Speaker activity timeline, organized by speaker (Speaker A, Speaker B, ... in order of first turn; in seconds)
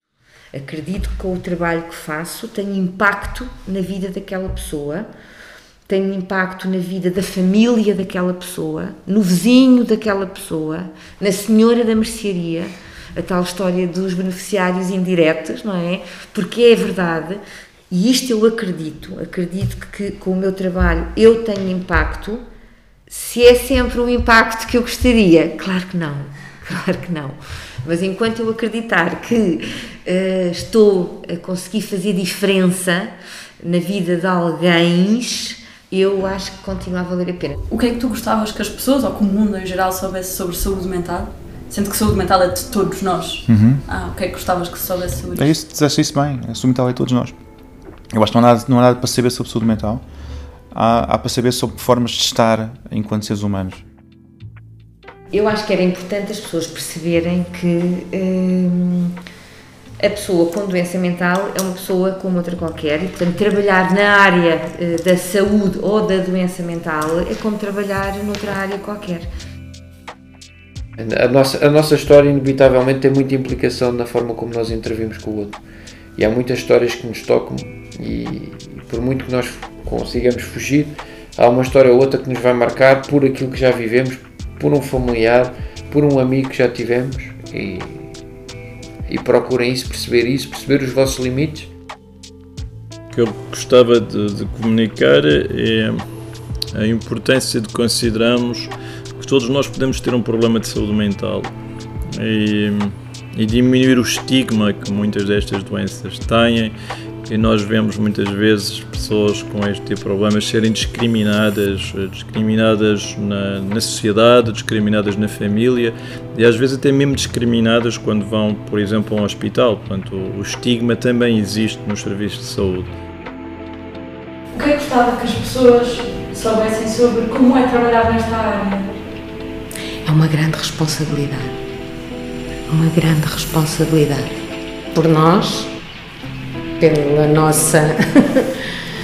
Speaker A: 0.5-5.1, 5.9-22.4, 23.1-33.1, 33.6-37.6, 55.3-59.1, 60.0-69.3
Speaker B: 37.7-45.5, 124.5-128.9
Speaker C: 43.5-43.8, 45.3-47.4, 48.1-50.0, 50.7-53.8
Speaker D: 71.0-75.6, 76.2-88.1, 89.1-91.7
Speaker E: 93.1-96.0, 96.7-101.5, 102.2-106.7, 107.3-122.9
Speaker F: 130.1-131.5, 132.7-134.3, 134.9-135.7, 136.8-138.5